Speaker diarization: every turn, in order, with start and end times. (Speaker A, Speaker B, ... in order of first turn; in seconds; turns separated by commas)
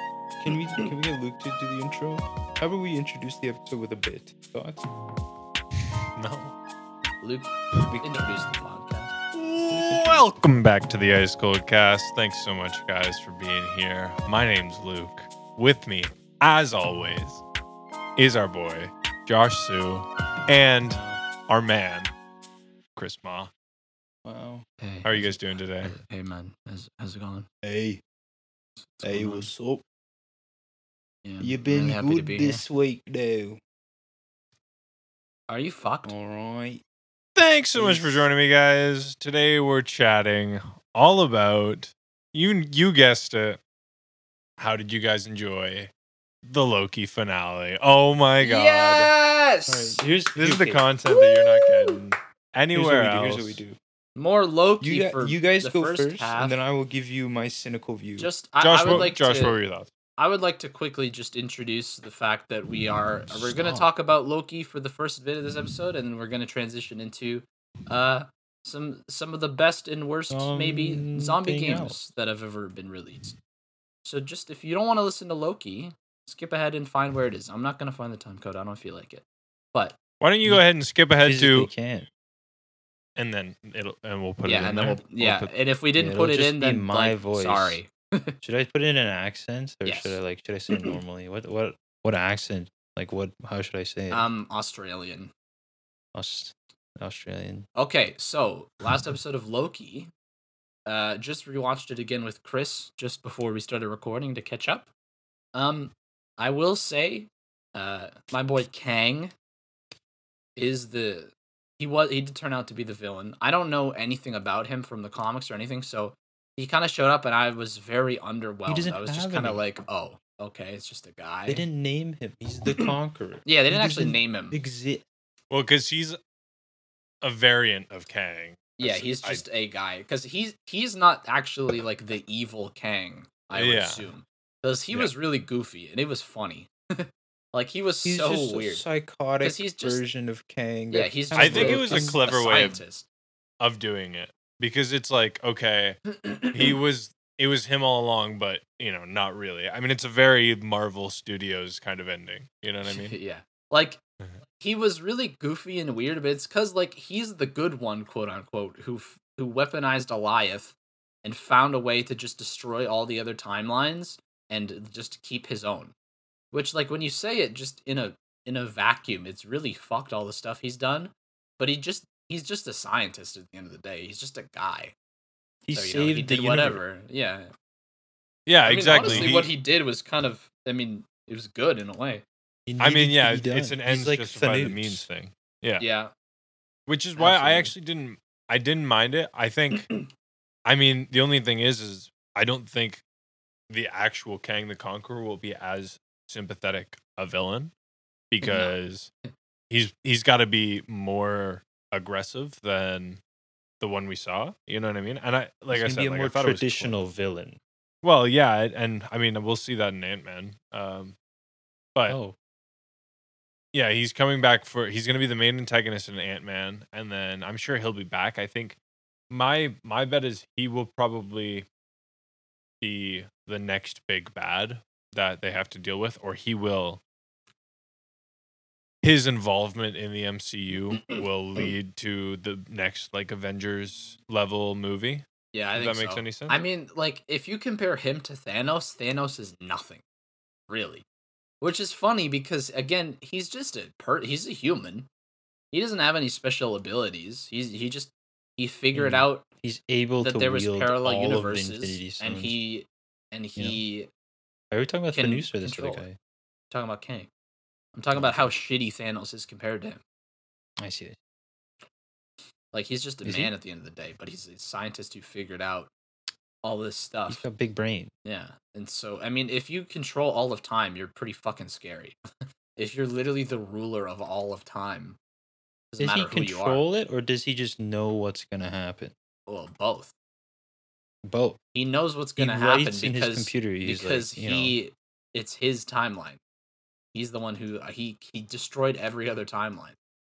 Speaker A: 0.4-4.8, Speaker B: 6.2-6.5, Speaker C: 7.2-9.1, Speaker B: 9.3-17.4, Speaker A: 9.7-10.2, Speaker B: 18.2-22.1, Speaker A: 20.9-21.2, Speaker B: 23.0-23.5, Speaker A: 24.2-24.7, Speaker C: 24.8-27.5, Speaker B: 25.0-26.0, Speaker A: 27.6-28.0, Speaker C: 28.8-29.5, Speaker A: 29.0-29.8, Speaker C: 31.2-32.6, Speaker A: 31.4-33.6, Speaker C: 35.5-36.1, Speaker A: 36.0-36.8, Speaker B: 37.4-43.6, Speaker A: 37.8-38.3, Speaker B: 44.6-45.9, Speaker B: 46.4-49.1, Speaker C: 48.4-50.0, Speaker A: 49.7-50.8, Speaker B: 50.4-53.6, Speaker C: 51.1-52.0, Speaker A: 52.7-53.8, Speaker C: 54.2-56.6, Speaker A: 54.8-58.3, Speaker C: 58.2-59.6, Speaker B: 58.6-59.9, Speaker C: 60.2-73.3, Speaker A: 63.3-63.9, Speaker A: 70.3-72.0, Speaker C: 74.0-80.0, Speaker B: 80.2-81.7, Speaker A: 81.2-82.1, Speaker B: 83.2-85.5, Speaker C: 84.4-88.3, Speaker A: 86.0-87.8, Speaker A: 88.4-94.2, Speaker C: 89.8-90.2, Speaker C: 94.1-95.3, Speaker A: 96.1-97.7, Speaker C: 97.8-100.1, Speaker C: 100.8-104.9, Speaker C: 105.5-109.3, Speaker C: 110.5-121.6, Speaker A: 118.7-119.6, Speaker A: 121.5-125.0, Speaker C: 123.4-124.6, Speaker B: 125.5-126.2, Speaker B: 127.2-129.4, Speaker C: 128.8-138.8, Speaker B: 133.5-134.1, Speaker A: 138.0-142.2, Speaker C: 139.4-140.0, Speaker C: 140.9-143.1, Speaker B: 141.3-142.8, Speaker B: 143.6-153.2, Speaker C: 146.1-146.8, Speaker C: 152.8-154.0, Speaker C: 154.6-165.9, Speaker C: 166.5-174.9, Speaker A: 175.7-176.8, Speaker C: 175.7-177.5, Speaker B: 178.4-179.5, Speaker C: 178.6-182.2, Speaker A: 178.9-179.4, Speaker A: 182.7-185.1, Speaker B: 182.8-185.8, Speaker C: 185.8-186.1, Speaker B: 186.9-189.9, Speaker C: 187.2-187.7, Speaker B: 190.7-193.0, Speaker B: 193.7-197.7, Speaker B: 198.3-199.1, Speaker C: 198.4-198.8, Speaker B: 199.7-203.2, Speaker B: 203.8-207.0, Speaker A: 205.7-207.6, Speaker B: 208.0-211.2, Speaker A: 212.1-212.3, Speaker B: 213.7-218.8, Speaker B: 219.3-221.7, Speaker B: 222.8-227.0, Speaker B: 229.0-236.7, Speaker C: 235.5-240.0, Speaker C: 240.7-241.0, Speaker C: 241.6-245.1, Speaker C: 245.7-249.4, Speaker A: 248.9-252.5, Speaker C: 250.2-254.1, Speaker A: 253.6-253.8, Speaker A: 254.7-256.2, Speaker C: 255.1-256.1, Speaker C: 256.7-257.3, Speaker C: 257.9-260.0, Speaker A: 258.1-258.4, Speaker A: 260.8-261.2, Speaker C: 262.7-265.9, Speaker A: 263.2-263.5, Speaker C: 266.6-267.5, Speaker A: 267.3-268.1, Speaker C: 268.2-272.2, Speaker C: 272.8-275.2, Speaker C: 275.9-276.8, Speaker A: 276.0-279.1, Speaker C: 279.5-280.1, Speaker A: 281.2-281.6, Speaker C: 281.7-286.4, Speaker A: 282.4-284.8, Speaker C: 287.1-290.0